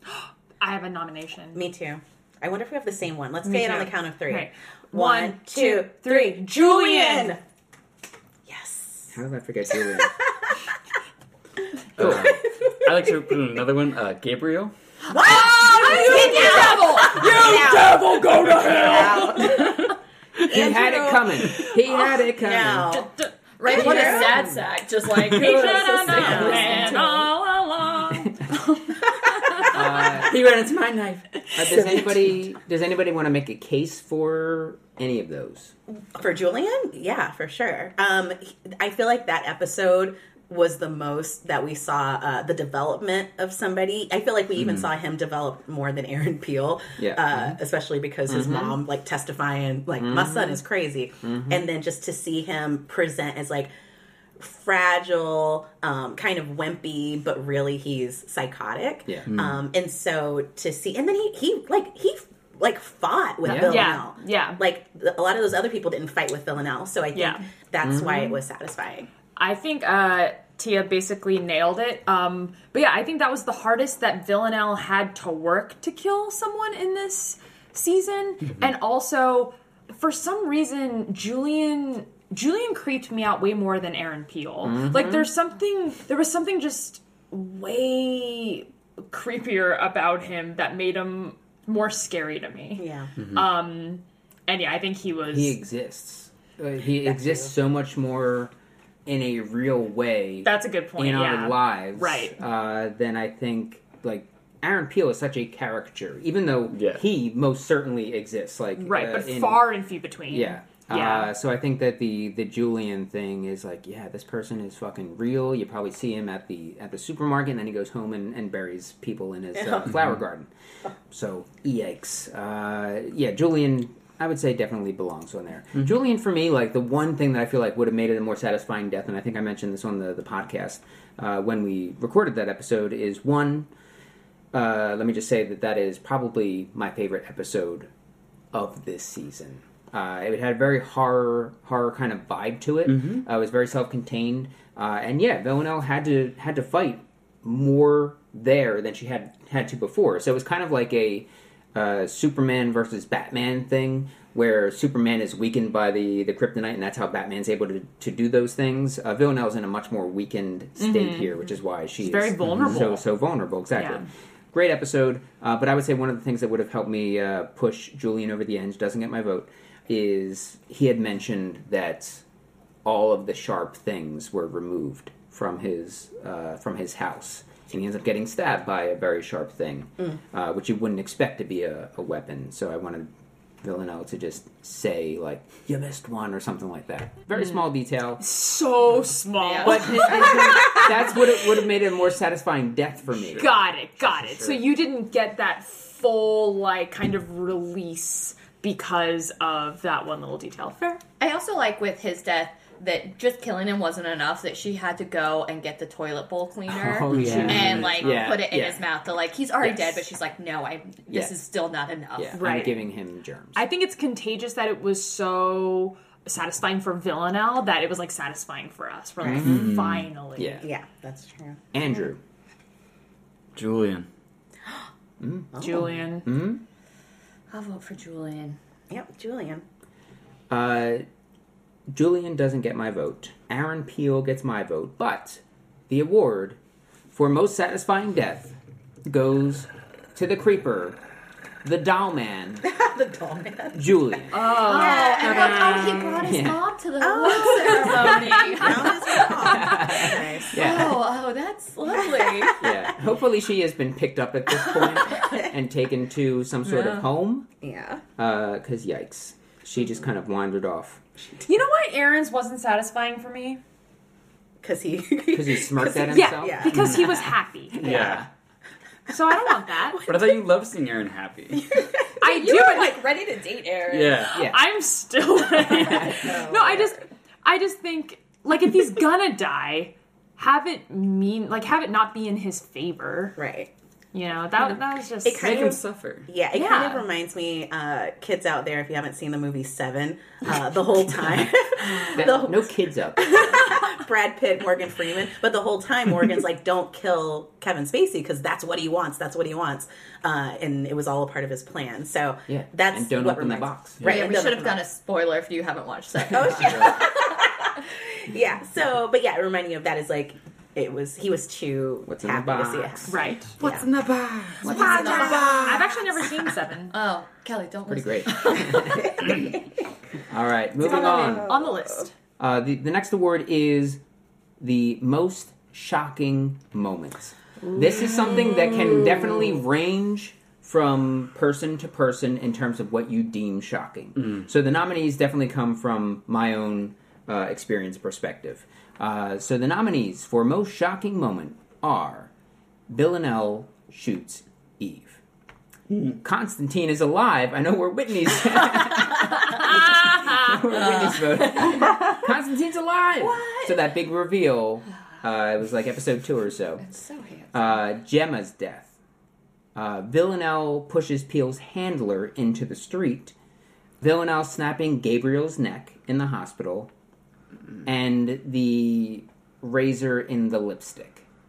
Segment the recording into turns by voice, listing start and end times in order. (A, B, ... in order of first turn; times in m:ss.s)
0:00.1-0:01.6 A
0:01.5-0:07.4 B
0:03.4-0:07.4 A
0:08.5-0:09.2 B
0:09.1-0:10.2 C
0:09.7-0:10.5 B
0:12.0-0:12.3 C
0:12.0-0:14.7 D
0:12.0-0:13.2 B
0:15.1-0:18.1 B
0:15.2-0:17.6 A
0:15.6-0:17.1 E
0:17.0-0:20.5 D
0:18.6-0:23.1 B
0:20.4-0:23.0 C
0:22.9-0:24.4 A
0:23.6-0:27.3 E
0:23.6-0:24.5 B
0:23.8-0:24.6 C
0:25.1-0:30.1 A
0:25.3-0:27.3 B
0:29.6-0:30.8 C
0:30.0-0:32.0 D
0:31.5-0:35.7 C
0:35.9-0:53.7 B
0:47.0-0:47.6 C
0:48.3-0:48.8 C
0:50.0-0:50.6 C
0:51.2-0:51.7 C
0:54.4-1:09.1 B
0:59.1-0:59.3 C
0:59.3-0:59.6 D
1:03.4-1:03.9 C
1:03.5-1:04.6 A
1:07.1-1:07.4 A
1:07.8-1:08.4 C
1:09.4-1:35.6 A
1:24.6-1:25.3 C
1:32.8-1:33.1 B
1:33.2-1:33.5 D
1:35.3-1:38.5 C
1:37.0-1:37.5 B
1:39.1-1:49.7 C
1:40.4-1:42.4 A
1:46.7-1:47.0 D
1:48.8-1:51.3 A
1:50.3-2:00.5 C
1:59.6-1:59.9 B
2:01.1-2:13.7 C
2:14.5-2:17.9 C
2:18.5-2:52.2 C
2:22.9-2:23.2 D
2:40.8-2:41.4 A
2:42.0-2:43.0 A
2:43.8-2:44.0 A
2:52.8-3:03.1 C
3:03.6-3:08.2 C
3:08.2-3:10.9 A
3:09.4-3:10.2 E
3:09.6-3:13.6 C
3:13.4-3:21.0 A
3:14.0-3:14.6 D
3:21.2-3:32.4 E
3:26.7-3:28.9 C
3:27.1-3:28.0 D
3:29.6-3:30.0 C
3:31.1-3:31.4 C
3:32.2-3:33.6 C
3:32.4-3:32.9 A
3:33.6-3:40.6 A
3:39.2-3:40.6 C
3:39.4-3:40.1 D
3:40.6-3:41.6 B
3:41.7-3:42.2 C
3:43.6-3:44.1 D
3:45.2-3:46.6 C
3:45.5-3:46.0 B
3:45.6-3:46.3 A
3:47.5-3:48.6 E
3:48.9-3:49.6 B
3:50.5-3:51.0 C
3:51.9-3:56.6 C
3:57.1-4:01.0 C
4:01.6-4:02.7 C
4:02.6-4:06.3 B
4:03.7-4:04.6 C
4:04.3-4:06.0 A
4:04.5-4:12.6 E
4:06.2-4:06.6 C
4:07.0-4:10.9 B
4:07.2-4:09.4 A
4:09.4-4:11.0 C
4:11.9-4:12.5 B
4:12.6-4:17.5 C
4:15.1-4:15.4 B
4:17.6-4:18.0 B
4:18.2-4:21.0 C
4:21.4-4:23.6 A
4:24.6-4:27.3 B
4:25.3-4:27.0 C
4:26.0-4:28.1 A
4:26.8-4:27.2 D
4:27.7-4:28.3 D
4:27.9-4:28.2 B
4:27.9-4:28.2 C
4:29.1-4:30.0 A
4:29.3-4:30.4 B
4:30.0-4:31.8 D
4:31.5-4:32.1 B
4:32.2-4:33.1 A
4:32.2-4:34.3 E
4:33.9-4:34.4 D
4:34.3-4:43.4 A
4:34.3-4:34.6 C
4:35.9-4:37.0 B
4:43.4-4:43.7 B
4:44.1-4:45.8 A
4:45.2-5:04.8 B
4:45.3-4:46.3 D
4:46.5-4:47.1 A
4:51.2-4:53.7 C
5:02.5-5:04.0 C
5:04.0-5:04.3 D
5:04.0-5:07.5 E
5:06.3-5:13.9 B
5:12.0-5:13.2 C
5:13.1-5:13.6 A
5:13.6-5:15.8 D
5:14.6-5:15.4 C
5:14.6-5:15.7 E
5:14.6-5:17.0 A
5:14.7-5:15.8 B
5:16.9-5:19.4 E
5:17.9-5:19.4 C
5:20.3-5:21.5 C
5:20.8-5:22.1 A
5:20.8-5:21.9 B
5:22.4-5:24.0 C
5:24.6-5:42.3 C
5:42.9-5:45.2 C
5:45.9-5:46.2 D
5:46.2-5:56.8 C
5:50.7-5:52.0 E
5:53.2-5:53.8 E
5:56.8-5:57.8 E
5:57.5-5:58.9 C
5:59.8-6:03.3 C
6:04.0-6:06.9 C
6:07.8-6:11.2 C